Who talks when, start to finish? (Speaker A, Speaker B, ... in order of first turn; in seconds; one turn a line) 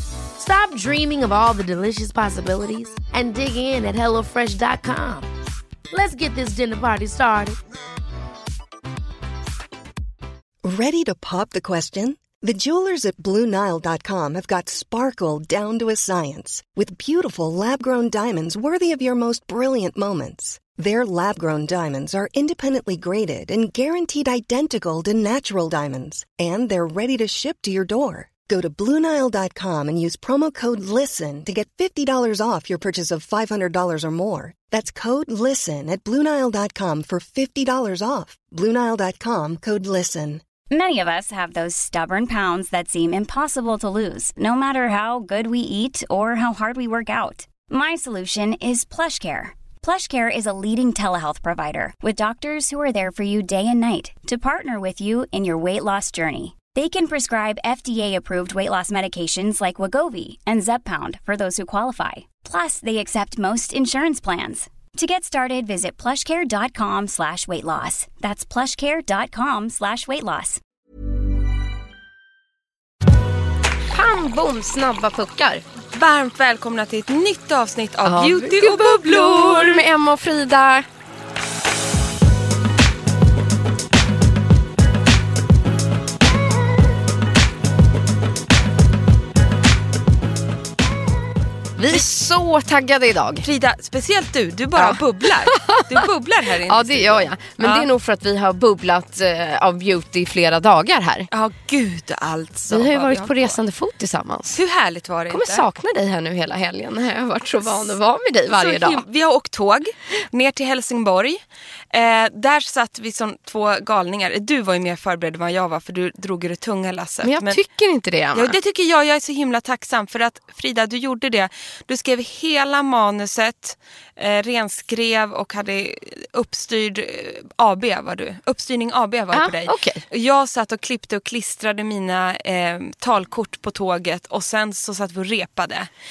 Speaker A: 0.3-5.3
Speaker A: 5.9-7.6
Speaker B: 10.6-40.4
Speaker C: 40.7-70.6
Speaker D: 73.8-75.6
Speaker E: 75.9-79.8
Speaker D: 78.0-80.9
Speaker D: 91.8-93.5
Speaker E: 93.4-97.9
Speaker D: 94.7-96.1
Speaker D: 96.6-101.3
Speaker E: 101.3-103.6
Speaker D: 102.7-104.6
Speaker E: 104.5-105.6
Speaker D: 105.3-109.0
Speaker E: 108.5-117.6
Speaker D: 117.2-118.6
Speaker E: 118.3-135.9
Speaker D: 129.3-130.0